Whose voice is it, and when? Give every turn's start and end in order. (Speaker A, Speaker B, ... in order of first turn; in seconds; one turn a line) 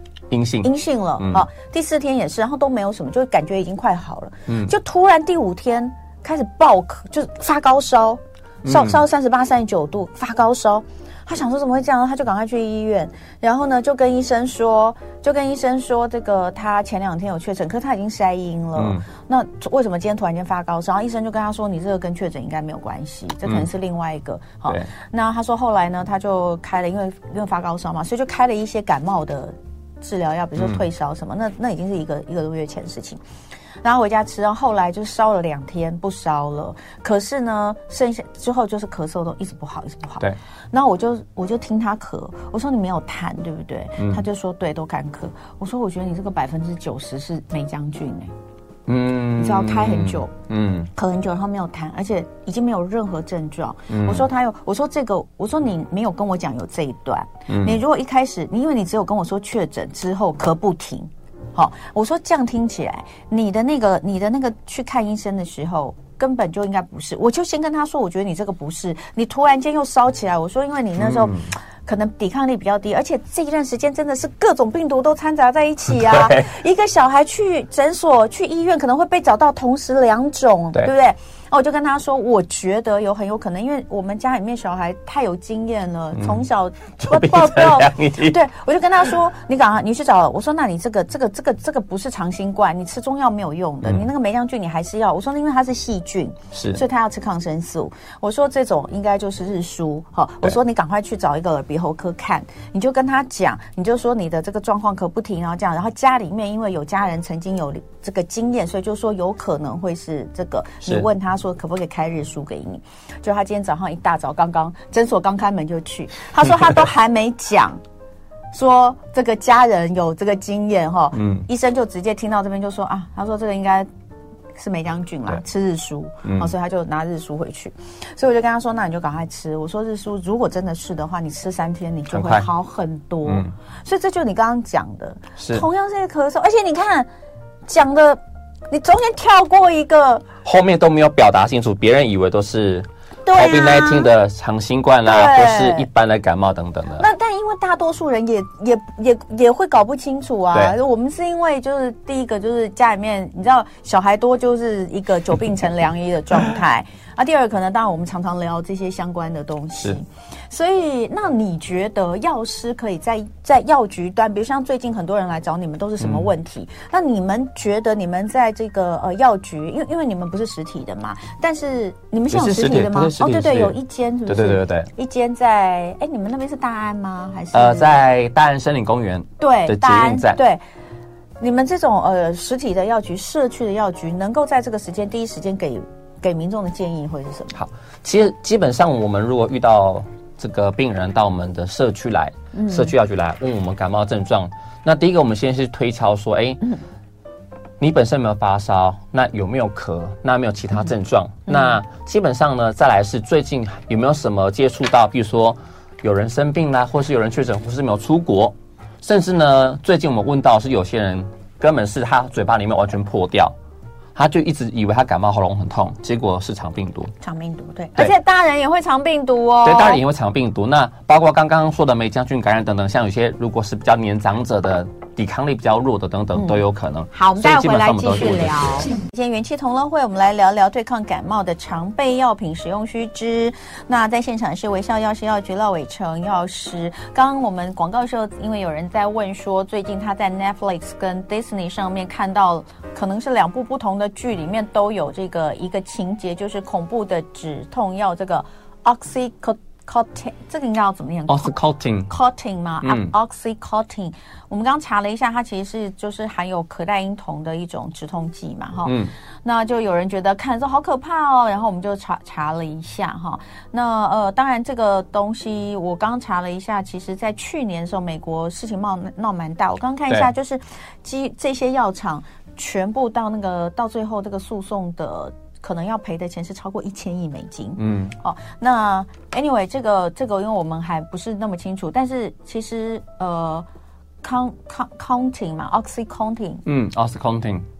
Speaker A: 0.3-1.4
Speaker B: 0.6-33.2
Speaker A: 4.5-4.7
Speaker A: 8.6-9.0
Speaker A: 18.8-19.0
Speaker A: 30.6-30.8
Speaker B: 33.8-48.3
Speaker A: 48.9-50.9
Speaker B: 49.4-50.3
Speaker B: 50.9-117.8
Speaker A: 53.9-54.2
Speaker A: 57.5-57.8
Speaker A: 71.0-71.5
Speaker A: 76.0-76.5
Speaker A: 86.2-86.4
Speaker A: 87.0-88.3
Speaker A: 96.5-96.8
Speaker B: 118.5-123.9
Speaker A: 121.1-121.4
Speaker B: 124.5-137.1
Speaker A: 126.2-126.5
Speaker A: 132.1-132.4
Speaker A: 133.2-133.5
Speaker A: 135.4-135.7
Speaker B: 137.7-140.3
Speaker A: 140.4-147.0
Speaker B: 143.2-144.1
Speaker B: 145.0-145.9
Speaker B: 147.0-178.0
Speaker A: 166.0-166.3
Speaker A: 172.3-173.7
Speaker A: 174.3-174.9
Speaker A: 177.5-180.4
Speaker B: 179.4-180.6
Speaker B: 181.4-187.6
Speaker A: 187.5-196.6
Speaker B: 192.5-192.9
Speaker A: 197.8-213.5
Speaker B: 201.5-201.8
Speaker A: 214.1-217.1
Speaker B: 217.2-220.0
Speaker A: 219.6-228.8
Speaker B: 226.3-251.5
Speaker A: 251.3-252.1
Speaker B: 252.1-283.6
Speaker A: 252.8-253.1
Speaker A: 258.8-259.1
Speaker A: 277.8-278.1
Speaker B: 284.2-286.6
Speaker A: 286.6-287.6